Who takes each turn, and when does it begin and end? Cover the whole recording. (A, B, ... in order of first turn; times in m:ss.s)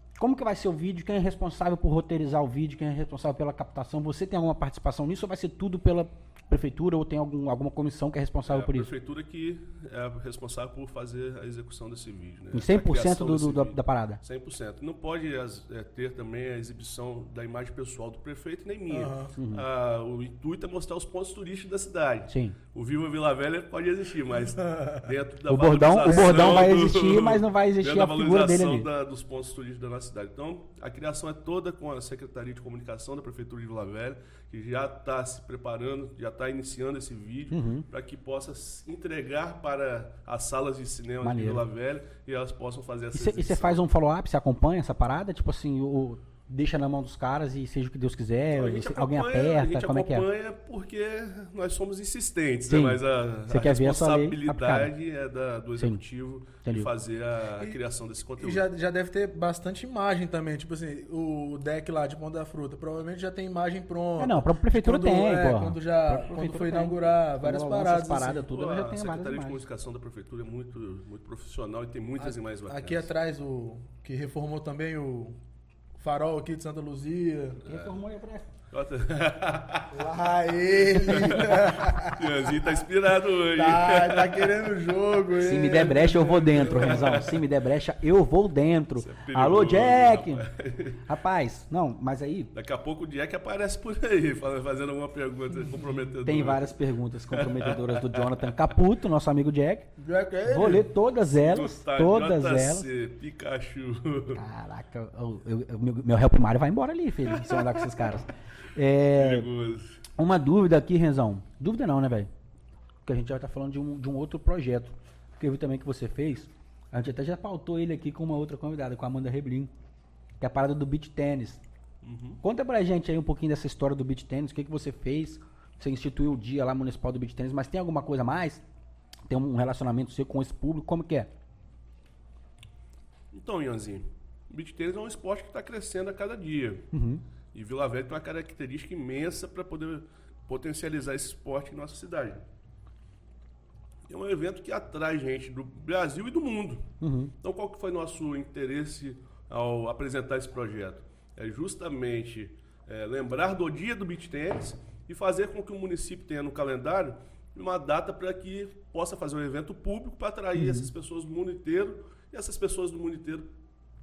0:00.2-0:08.9 A
0:08.4-0:43.8 B
0:12.5-0:14.2 A
0:18.9-0:19.3 C
0:19.4-0:19.6 A
0:22.3-0:22.6 A
0:25.5-0:28.9 A
0:26.0-0:26.8 C
0:37.5-0:37.8 A
0:41.2-0:41.6 A
0:43.1-0:50.2 A
0:48.5-0:58.6 B
0:52.7-0:54.9 A
0:56.6-0:56.9 A
0:58.4-1:08.5 C
1:04.2-1:09.6 A
1:08.4-1:13.1 B
1:12.2-1:15.4 C
1:16.0-1:17.6 C
1:17.6-1:17.9 B
1:17.6-1:18.5 A
1:18.7-1:20.0 B
1:19.9-1:22.7 C
1:21.0-1:21.4 A
1:21.1-1:24.5 B
1:23.5-1:27.2 C
1:25.4-1:30.4 A
1:26.7-1:27.3 B
1:29.0-1:31.0 B
1:31.1-1:32.5 A
1:32.5-1:36.7 B
1:36.2-1:39.9 A
1:37.3-1:38.4 B
1:40.0-1:40.9 C
1:40.5-1:42.8 A
1:41.3-1:44.4 B
1:44.3-1:49.5 A
1:47.3-1:47.9 B
1:49.1-1:50.0 B
1:50.2-1:52.3 A
1:53.0-1:59.7 A
2:00.4-2:01.6 A
2:02.0-2:02.4 B
2:02.4-2:08.6 A
2:09.3-2:11.3 A
2:13.3-2:16.9 B
2:16.9-2:17.2 A
2:17.5-2:22.4 B
2:24.1-2:26.9 B
2:27.0-2:27.3 A
2:27.4-2:43.5 B
2:40.6-2:40.9 A